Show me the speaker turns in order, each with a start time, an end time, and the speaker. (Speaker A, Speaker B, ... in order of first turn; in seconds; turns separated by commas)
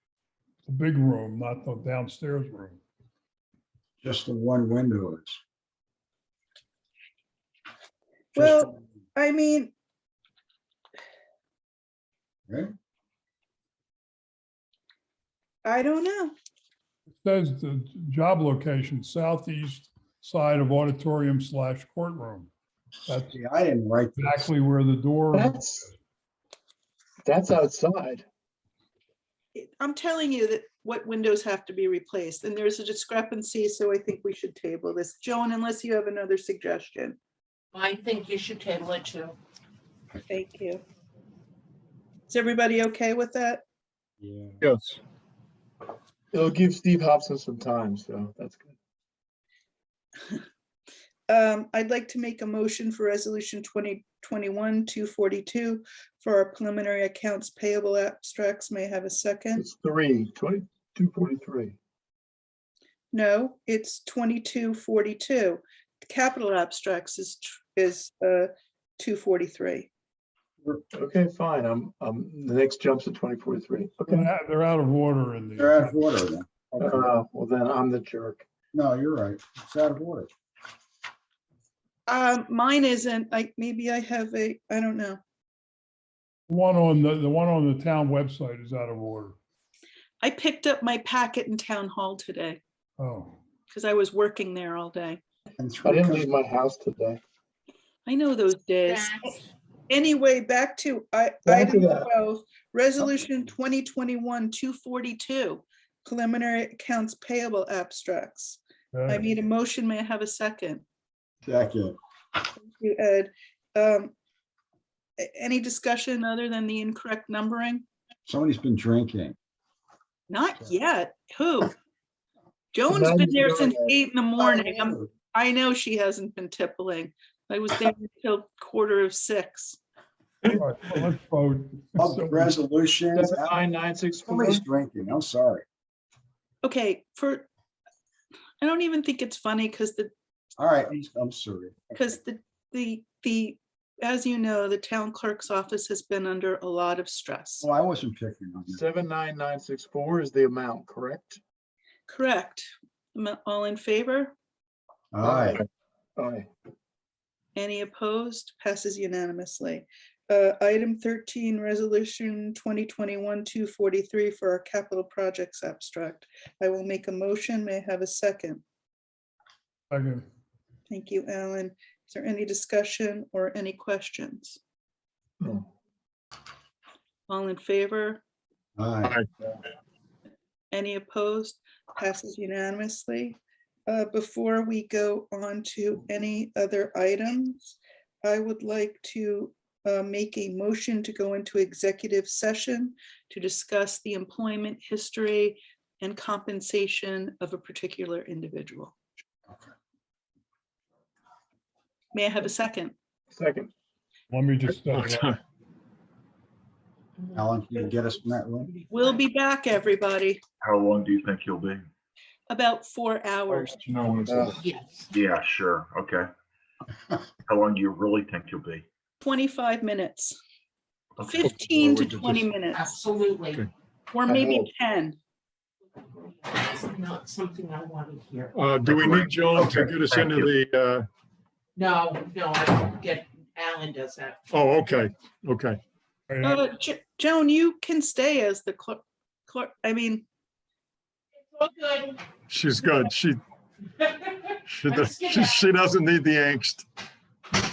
Speaker A: 0.7-2.8, Speaker B: 4.0-5.4, Speaker C: 8.3-9.7, Speaker B: 8.4-8.7, Speaker C: 15.7-16.3, Speaker A: 17.1-22.5, Speaker A: 23.1-23.3, Speaker B: 23.2-24.5, Speaker A: 24.2-25.6, Speaker D: 25.3-25.9, Speaker D: 27.2-28.2, Speaker C: 29.6-37.2, Speaker E: 37.7-39.4, Speaker C: 40.3-40.8, Speaker C: 42.3-43.6, Speaker B: 44.2-44.6, Speaker F: 44.6-45.0, Speaker D: 46.3-48.7, Speaker C: 51.3-59.6, Speaker D: 59.6-61.8, Speaker C: 63.1-69.9, Speaker D: 70.9-74.3, Speaker A: 74.0-76.0, Speaker B: 75.6-77.1, Speaker D: 76.8-78.5, Speaker B: 78.7-80.3, Speaker C: 82.1-85.2, Speaker A: 86.5-89.4, Speaker C: 90.2-92.6, Speaker A: 93.0-93.4, Speaker C: 93.7-95.2, Speaker B: 95.6-96.3, Speaker D: 95.8-97.2, Speaker C: 98.1-99.3, Speaker E: 98.9-99.4, Speaker C: 99.9-110.8, Speaker D: 101.5-102.1, Speaker A: 108.9-109.2, Speaker B: 111.4-112.0, Speaker C: 112.6-114.1, Speaker C: 115.2-117.9, Speaker B: 118.3-119.4, Speaker C: 120.3-121.7, Speaker C: 122.7-129.8, Speaker D: 122.9-123.9, Speaker B: 124.4-125.1, Speaker A: 130.5-132.6, Speaker B: 132.0-133.6, Speaker D: 133.1-134.7, Speaker B: 134.3-135.7, Speaker C: 136.6-137.5, Speaker C: 138.6-140.1, Speaker B: 140.6-142.0, Speaker C: 141.9-147.7, Speaker B: 147.6-148.8, Speaker D: 148.7-151.4, Speaker C: 152.1-154.3, Speaker B: 155.1-155.6, Speaker D: 155.2-156.5, Speaker C: 157.6-168.6, Speaker A: 169.9-170.3, Speaker C: 170.9-174.6, Speaker D: 175.4-175.7, Speaker C: 177.3-178.2, Speaker B: 178.8-179.2, Speaker C: 180.7-198.9, Speaker C: 202.1-202.9, Speaker D: 203.3-203.7, Speaker A: 204.3-205.4, Speaker F: 204.7-205.4, Speaker E: 207.2-208.0, Speaker B: 207.3-208.7, Speaker E: 208.7-209.1, Speaker C: 208.9-210.4, Speaker G: 210.6-211.8, Speaker C: 212.5-213.8, Speaker F: 213.7-214.6, Speaker D: 214.3-214.6, Speaker E: 214.5-215.1, Speaker G: 215.1-216.3, Speaker G: 217.5-218.8, Speaker C: 219.2-220.4, Speaker G: 221.2-221.5, Speaker C: 221.2-223.0, Speaker F: 221.4-222.4, Speaker E: 222.7-223.7, Speaker C: 224.1-225.2, Speaker D: 224.3-224.7, Speaker E: 226.4-228.6, Speaker F: 228.5-231.1, Speaker G: 228.8-230.5, Speaker E: 231.8-234.4, Speaker F: 234.5-235.8, Speaker A: 236.3-236.7, Speaker C: 236.4-240.2, Speaker E: 241.5-242.3, Speaker F: 242.5-243.4, Speaker E: 244.0-244.3, Speaker F: 244.7-246.9, Speaker E: 244.8-245.8